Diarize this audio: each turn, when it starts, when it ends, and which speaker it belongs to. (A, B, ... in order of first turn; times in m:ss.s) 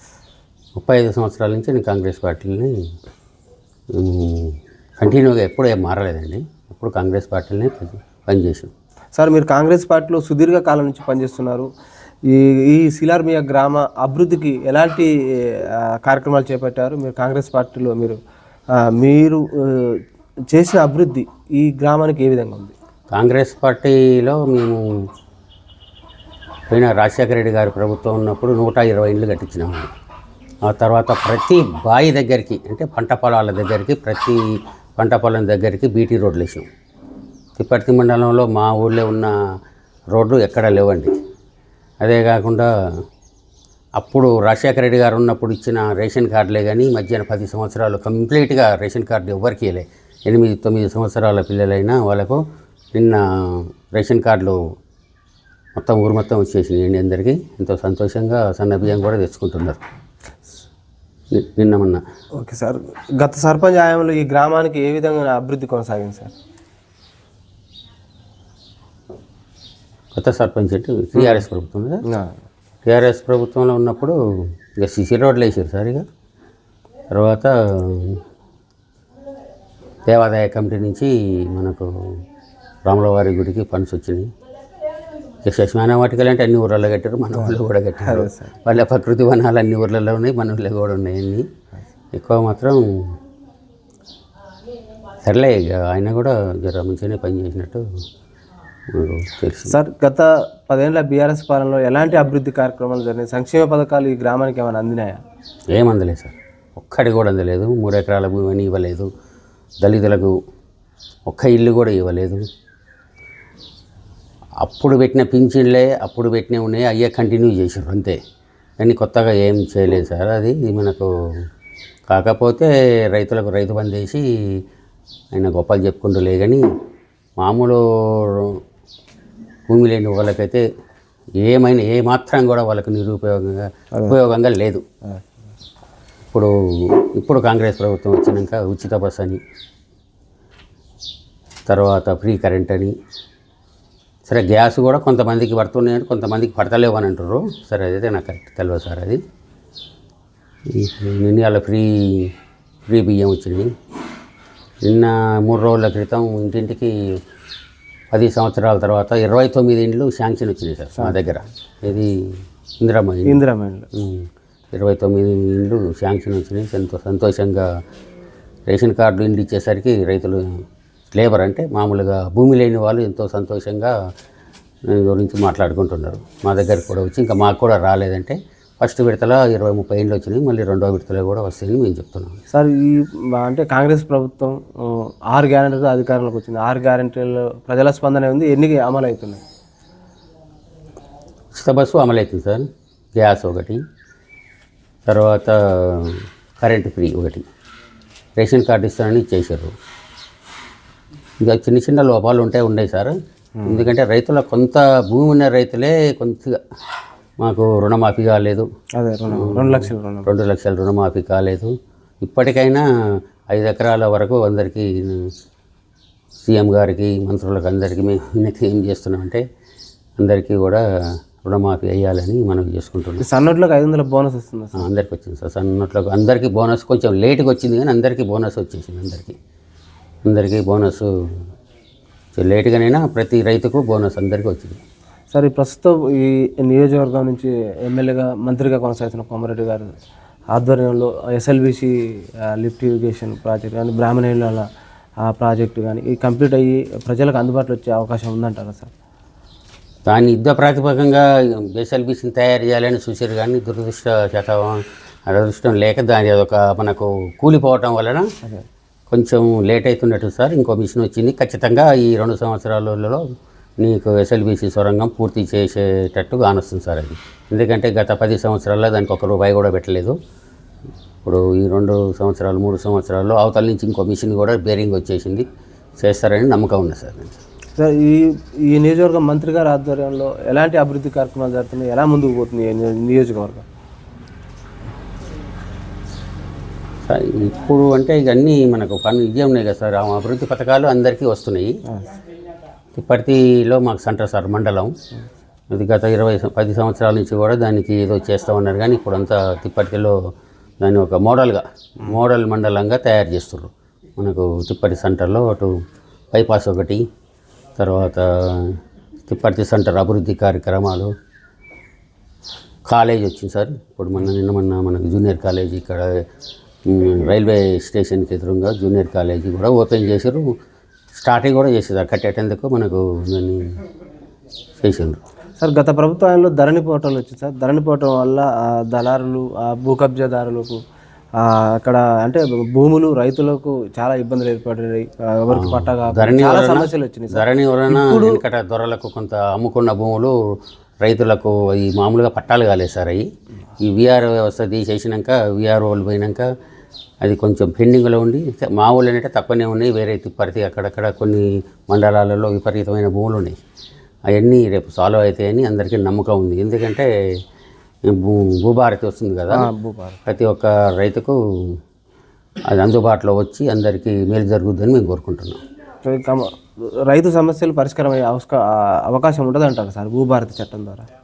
0:00.8-0:02.8 A
0:03.9-0:08.7 A
0:09.2-0:11.7 B
0:12.3-0:18.2 B
0:18.8-0:20.0 B
0:20.5-0:22.7 B
0:23.1-0:24.8 A
0:26.7-0:29.9 A
0:30.6-0:34.4 A
0:35.0-0:36.7 A
0:37.6-0:39.4 A
0:40.1-0:41.1 A
0:42.0-0:42.7 A
0:44.0-0:52.4 A
0:52.9-0:54.6 A
0:55.8-0:59.8 A
1:01.3-1:02.0 A
1:02.4-1:06.3 B
1:10.1-1:12.0 A
1:11.2-1:11.4 B
1:12.1-1:12.4 B
1:12.8-1:14.2 A
1:14.8-1:16.0 A
1:17.1-1:18.2 A
1:20.1-1:21.9 A
1:22.9-1:24.3 A
1:25.4-1:31.5 A
1:27.4-1:28.5 B
1:32.1-1:33.1 A
1:35.2-1:37.8 A
1:38.9-1:39.8 A
1:39.7-1:45.2 B
1:45.7-1:49.1 A
1:49.8-1:50.4 A
1:51.3-1:52.4 A
1:54.6-1:58.2 A
1:58.8-2:01.1 A
2:02.1-2:04.6 A
2:05.3-2:06.6 A
2:07.4-2:08.6 A
2:09.7-2:10.6 A
2:11.4-2:14.8 A
2:16.3-2:19.4 A
2:21.7-2:22.9 A
2:24.3-2:29.2 A
2:30.7-2:32.3 A
2:32.9-2:33.7 A
2:34.8-2:37.2 A
2:38.1-2:43.4 A
2:43.3-2:43.9 B
2:43.9-2:47.7 A
2:48.7-2:50.6 A
2:51.1-2:53.9 A
2:54.9-3:02.4 A
3:02.5-3:09.4 B
3:11.6-3:13.8 A
3:15.1-3:17.5 A
3:18.4-3:19.7 A
3:21.4-3:23.2 A
3:23.6-3:23.9 B
3:23.7-3:26.6 A
3:27.4-3:28.7 A
3:29.0-3:30.3 B
3:29.3-3:32.9 A
3:33.5-3:35.3 A
3:36.5-3:39.4 A
3:40.2-3:40.8 A
3:41.4-3:43.2 A
3:43.2-3:44.9 B
3:44.8-3:49.4 A
3:50.3-3:51.1 A
3:52.4-3:54.8 A
3:55.3-3:59.9 B
4:00.5-4:04.7 B
4:05.2-4:08.9 B
4:10.1-4:18.3 A
4:19.1-4:23.2 A
4:23.8-4:30.2 A
4:31.2-4:35.5 A
4:36.0-4:37.4 A
4:37.8-4:43.7 B
4:47.0-4:51.8 A
4:53.0-4:54.9 A
4:55.7-5:00.2 A
5:00.8-5:05.7 A
5:06.3-5:07.0 A
5:07.8-5:11.1 A
5:12.9-5:16.2 A
5:16.9-5:20.5 A
5:21.2-5:23.7 A
5:24.8-5:25.2 A
5:25.6-5:30.8 B
5:31.4-5:38.4 B
5:35.5-5:40.4 A
5:41.0-5:43.3 A
5:43.8-5:46.5 A
5:47.2-5:53.6 A
5:54.3-5:57.1 A
5:58.1-5:59.7 A
5:59.5-6:00.2 B
6:00.3-6:01.8 A
6:02.7-6:05.6 A
6:06.0-6:11.1 B